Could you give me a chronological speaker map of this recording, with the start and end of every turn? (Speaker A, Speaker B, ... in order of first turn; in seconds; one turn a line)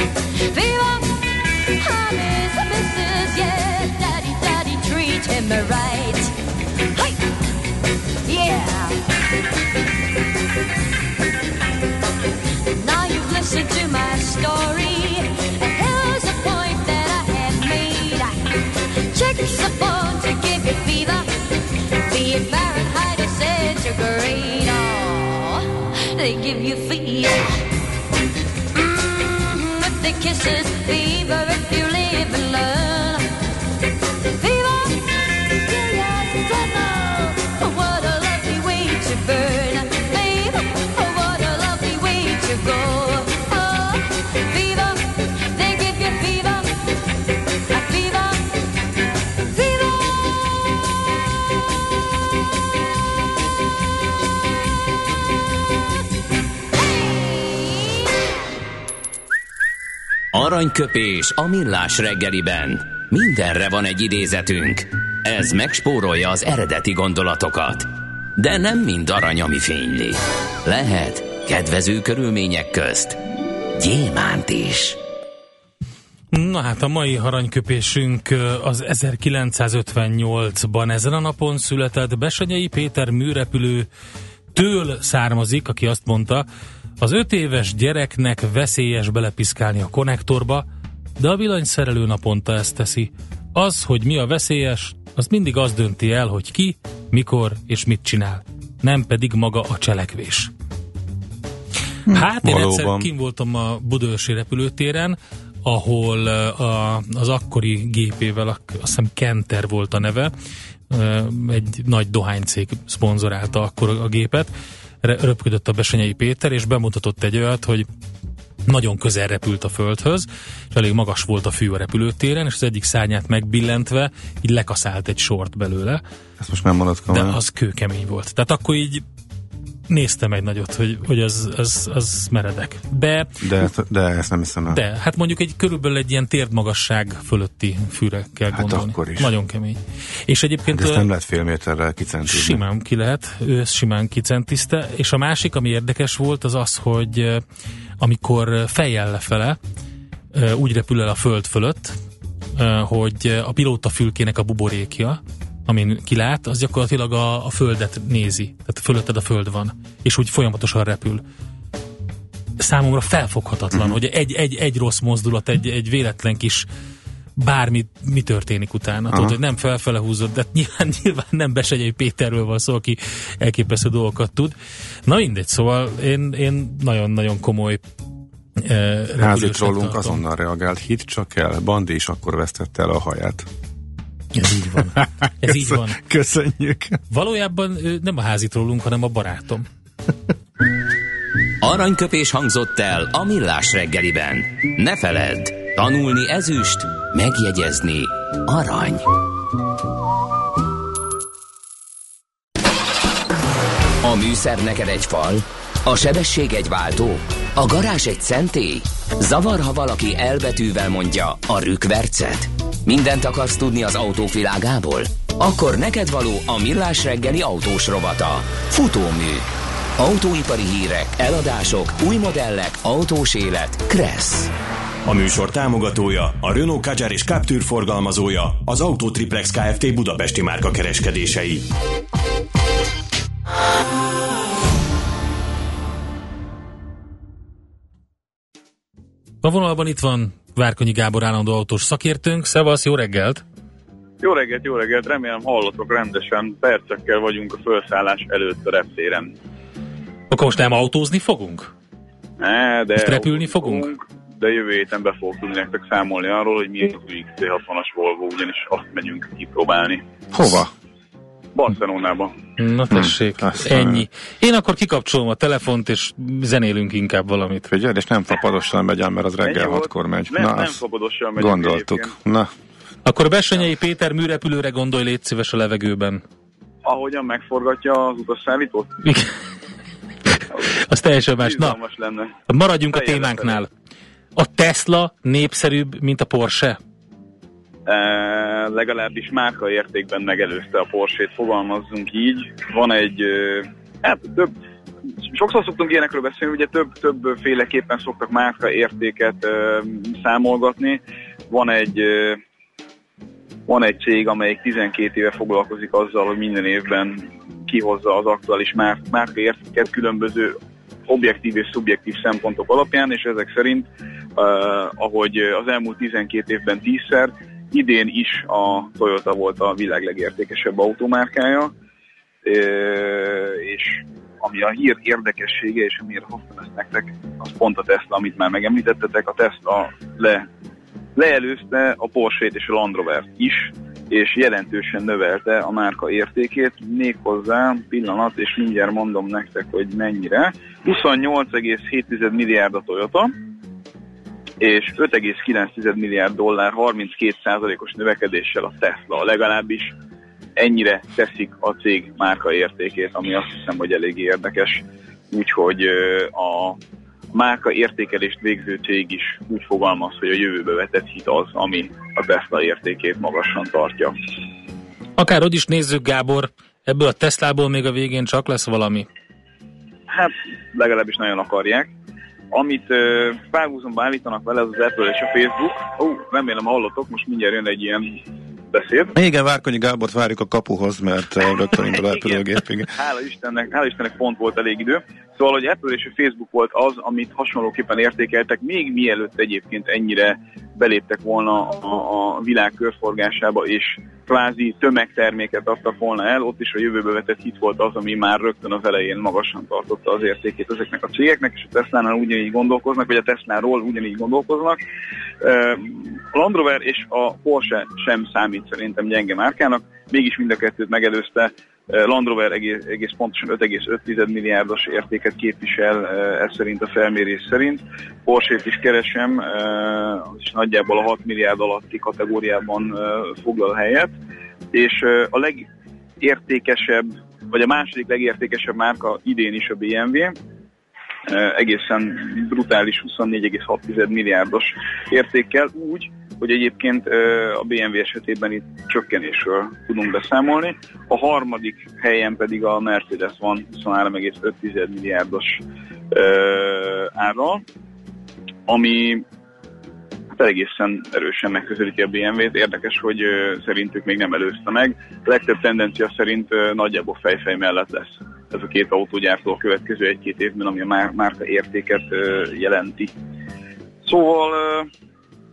Speaker A: 0.5-6.3
Speaker A: 6.9-7.2
Speaker A: 8.2-9.0
Speaker A: 12.7-18.4
Speaker A: 19.1-21.3
Speaker A: 22.1-27.6
Speaker A: 28.7-33.3
Speaker A: 34.4-46.8
Speaker A: 47.7-48.5
Speaker A: 49.5-50.1
Speaker A: 57.1-57.6
Speaker B: 60.3-67.8
Speaker B: 68.4-73.2
Speaker B: 73.7-75.0
Speaker C: 76.3-83.9
Speaker C: 84.5-86.5
Speaker C: 87.0-90.6
Speaker C: 91.2-100.5
Speaker D: 102.1-103.1
Speaker C: 102.1-110.3
Speaker C: 110.9-114.5
Speaker C: 115.0-117.8
Speaker C: 118.7-126.0
Speaker D: 126.4-127.4
Speaker C: 127.1-129.0
Speaker C: 129.9-133.4
Speaker D: 133.4-134.8
Speaker C: 134.7-141.1
Speaker D: 138.5-139.3
Speaker D: 140.7-142.6
Speaker C: 142.3-147.4
Speaker C: 148.0-149.6
Speaker C: 150.3-151.9
Speaker C: 152.5-161.2
Speaker C: 162.6-166.7
Speaker C: 167.4-174.5
Speaker D: 169.1-169.4
Speaker C: 175.1-177.8
Speaker C: 178.6-180.2
Speaker D: 179.2-183.4
Speaker C: 184.3-186.0
Speaker D: 184.8-187.0
Speaker C: 187.1-189.7
Speaker B: 191.6-199.1
Speaker B: 204.0-219.5
Speaker B: 220.0-224.5
Speaker E: 225.1-231.6
Speaker C: 239.4-243.4
Speaker F: 244.2-249.3
Speaker C: 250.3-251.7
Speaker F: 252.4-260.0
Speaker C: 253.0-253.9
Speaker D: 260.3-260.7
Speaker F: 261.5-262.3
Speaker C: 262.6-267.6
Speaker D: 262.9-264.1
Speaker D: 267.6-270.8
Speaker F: 269.4-272.1
Speaker D: 271.4-272.5
Speaker C: 273.1-276.2
Speaker F: 276.8-278.9
Speaker C: 279.0-279.3
Speaker F: 280.5-280.8
Speaker C: 280.8-281.8
Speaker F: 281.4-282.3
Speaker C: 282.5-283.7
Speaker F: 282.9-283.6
Speaker C: 284.4-286.8
Speaker F: 287.9-294.5
Speaker F: 295.2-302.4
Speaker F: 303.7-310.6
Speaker F: 311.1-313.9
Speaker F: 314.4-321.7
Speaker F: 322.4-330.5
Speaker F: 331.1-343.3
Speaker F: 344.6-349.9
Speaker F: 350.6-356.8
Speaker F: 357.3-364.1
Speaker C: 365.2-369.1
Speaker F: 370.1-371.9
Speaker F: 372.5-378.2
Speaker F: 378.7-379.1
Speaker D: 379.1-382.9
Speaker F: 382.0-404.8
Speaker F: 405.4-424.1
Speaker F: 424.7-425.7
Speaker F: 426.2-430.3
Speaker F: 431.3-447.6
Speaker F: 448.7-449.2
Speaker F: 450.3-463.1
Speaker F: 464.0-464.9